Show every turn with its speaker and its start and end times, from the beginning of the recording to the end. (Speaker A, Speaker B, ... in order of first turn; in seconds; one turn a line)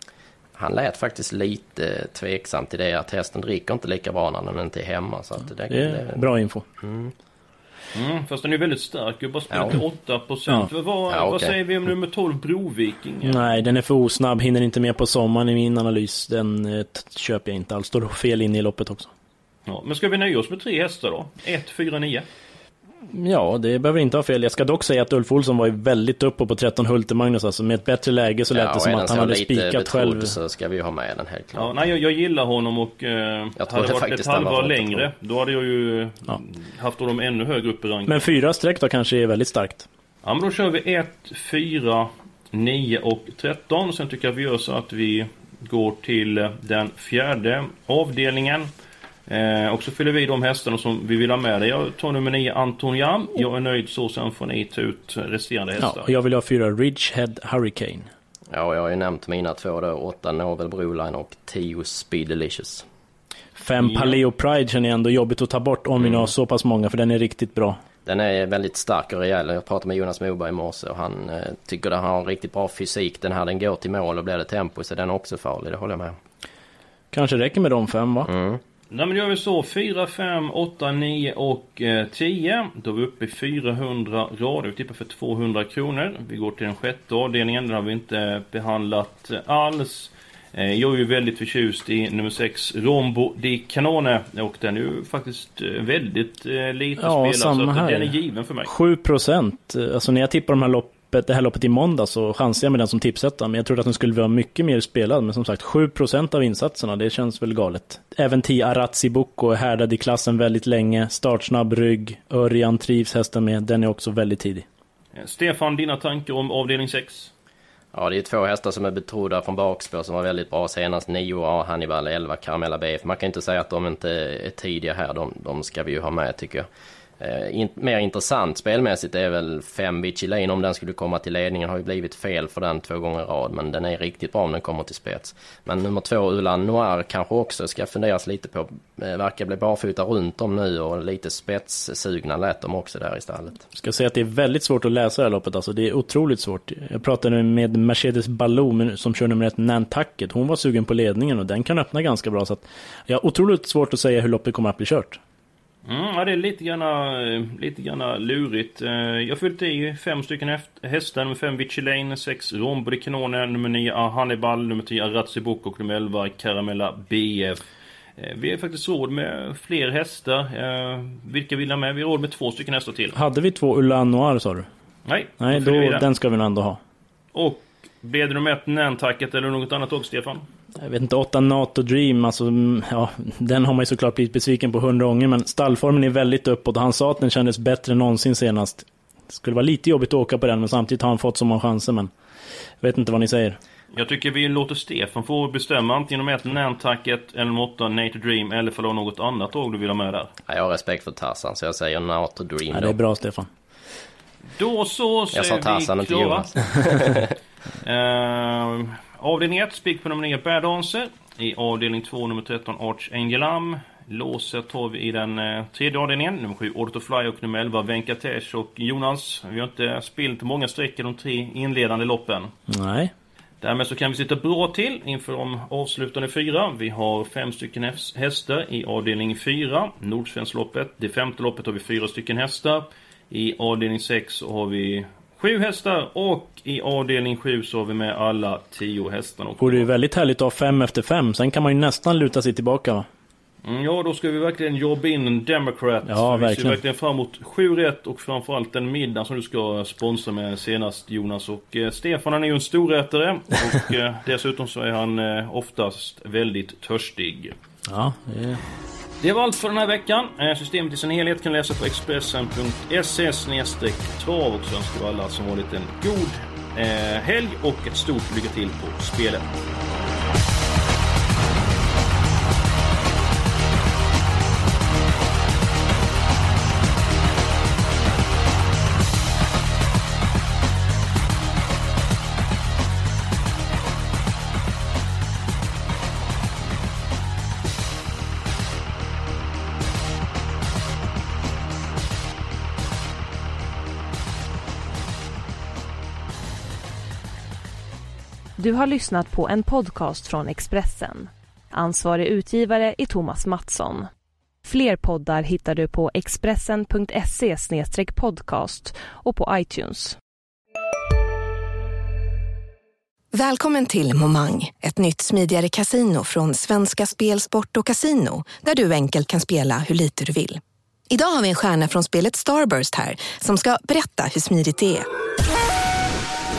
Speaker A: 0.6-6.2
Speaker B: 5.7-6.7
Speaker A: 6.8-7.1
Speaker C: 7.9-13.6
Speaker A: 9.5-9.8
Speaker A: 11.1-11.6
Speaker B: 13.2-19.1
Speaker C: 19.7-22.3
Speaker B: 23.1-30.4
Speaker A: 28.5-31.7
Speaker C: 31.6-38.2
Speaker A: 33.6-35.1
Speaker B: 38.1-39.9
Speaker C: 40.2-48.7
Speaker C: 49.3-56.1
Speaker B: 55.8-58.1
Speaker A: 58.5-62.9
Speaker B: 63.6-67.8
Speaker C: 63.8-64.2
Speaker A: 66.0-66.3
Speaker A: 68.0-76.2
Speaker B: 77.1-78.3
Speaker A: 78.2-78.6
Speaker C: 78.9-98.7
Speaker B: 97.0-98.1
Speaker B: 98.7-114.7
Speaker C: 115.2-117.3
Speaker A: 117.9-126.7
Speaker A: 127.2-143.6
Speaker B: 143.7-155.2
Speaker C: 155.8-167.6
Speaker C: 168.2-173.2
Speaker B: 173.2-174.7
Speaker C: 175.1-176.1
Speaker B: 175.4-176.8
Speaker C: 177.3-180.4
Speaker B: 180.8-192.1
Speaker B: 192.8-193.6
Speaker C: 193.9-200.3
Speaker A: 200.5-203.0
Speaker B: 202.7-203.5
Speaker C: 204.6-206.5
Speaker A: 205.3-207.3
Speaker C: 207.8-222.5
Speaker B: 222.7-223.1
Speaker C: 223.6-239.9
Speaker B: 239.6-243.1
Speaker C: 243.6-257.6
Speaker B: 246.1-246.8
Speaker B: 257.9-258.6
Speaker C: 259.2-269.6
Speaker D: 298.6-304.1
Speaker D: 304.6-310.2
Speaker E: 313.3-325.1